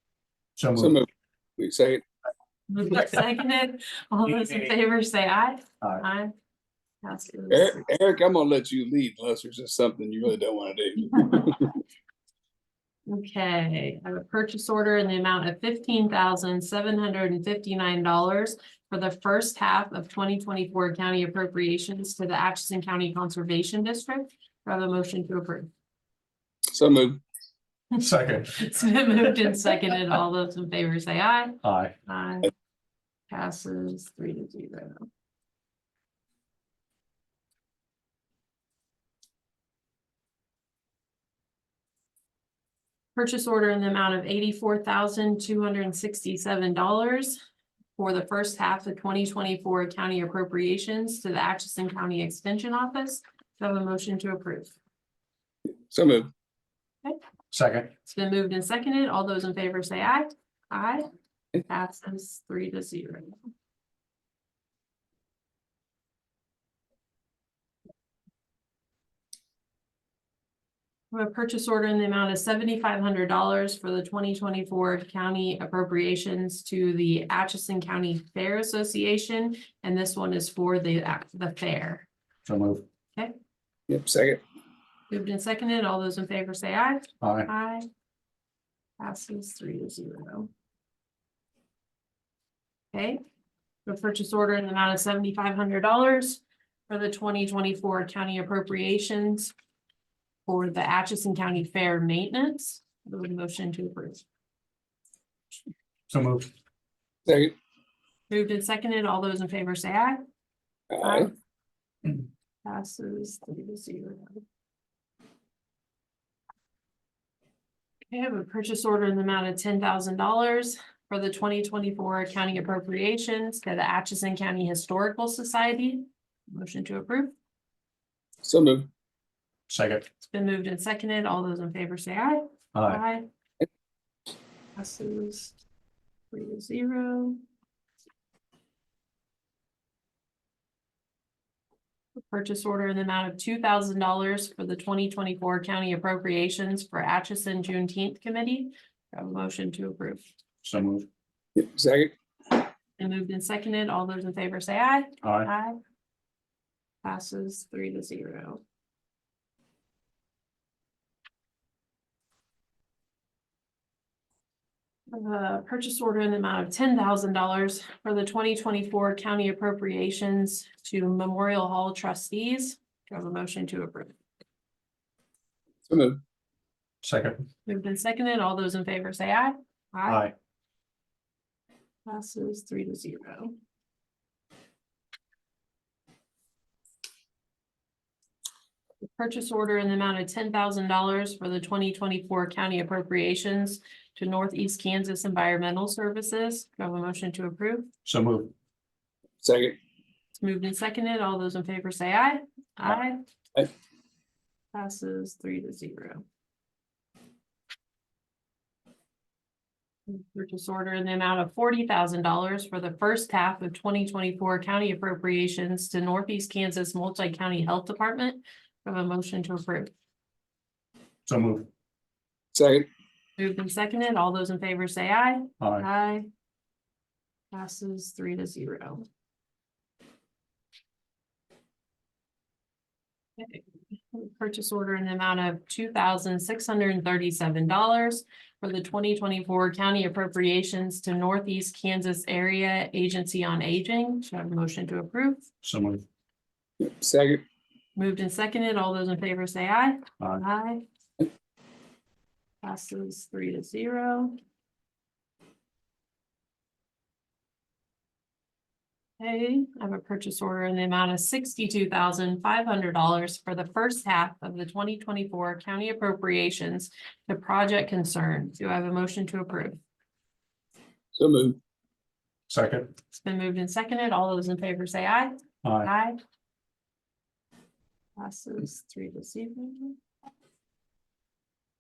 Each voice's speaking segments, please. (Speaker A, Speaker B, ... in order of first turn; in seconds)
Speaker A: 0.6-1.0, 28.0-28.7, 31.6-31.9, 57.5-57.9, 82.5-82.8, 87.2-87.5, 106.1-106.5, 129.7-130.1, 132.7-133.0, 150.6-151.1, 155.2-155.5, 177.0-177.5, 180.1-180.3, 198.1-198.5, 221.3-221.7, 225.6-225.9, 245.6-246.1, 272.5-272.9, 275.6-275.9
Speaker B: 0.8-1.1, 1.6-2.0, 7.5-11.7, 26.7-27.2, 55.9-56.3, 83.9-84.4, 107.3-107.5, 110.9-111.3, 128.4-128.9, 151.6-152.1, 175.9-176.2, 199.4-199.8, 222.5-222.9, 246.8-247.4, 271.2-271.6
Speaker C: 2.7-6.3, 7.0-7.9, 13.1-25.7, 28.6-32.5, 33.3-35.1, 43.1-47.4, 48.0-54.8, 58.0-61.1, 61.7-63.4, 71.1-82.1, 85.1-87.9, 89.0-90.5, 92.9-93.2, 93.9-99.5, 100.5-104.2, 108.3-110.2, 111.0-111.3, 112.7-114.4, 118.1-127.3, 130.2-133.3, 134.8-135.6, 136.3-137.4, 142.3-150.2, 153.0-155.8, 157.0-158.6, 165.1-174.2, 177.7-180.2, 182.1-183.5, 189.0-197.9, 200.4-203.2, 204.7-206.2, 210.1-219.9, 223.4-226.3, 227.5-229.1, 233.4-245.5, 248.0-250.8, 252.6-254.4, 259.2-269.8, 273.1-276.2, 278.2-280.0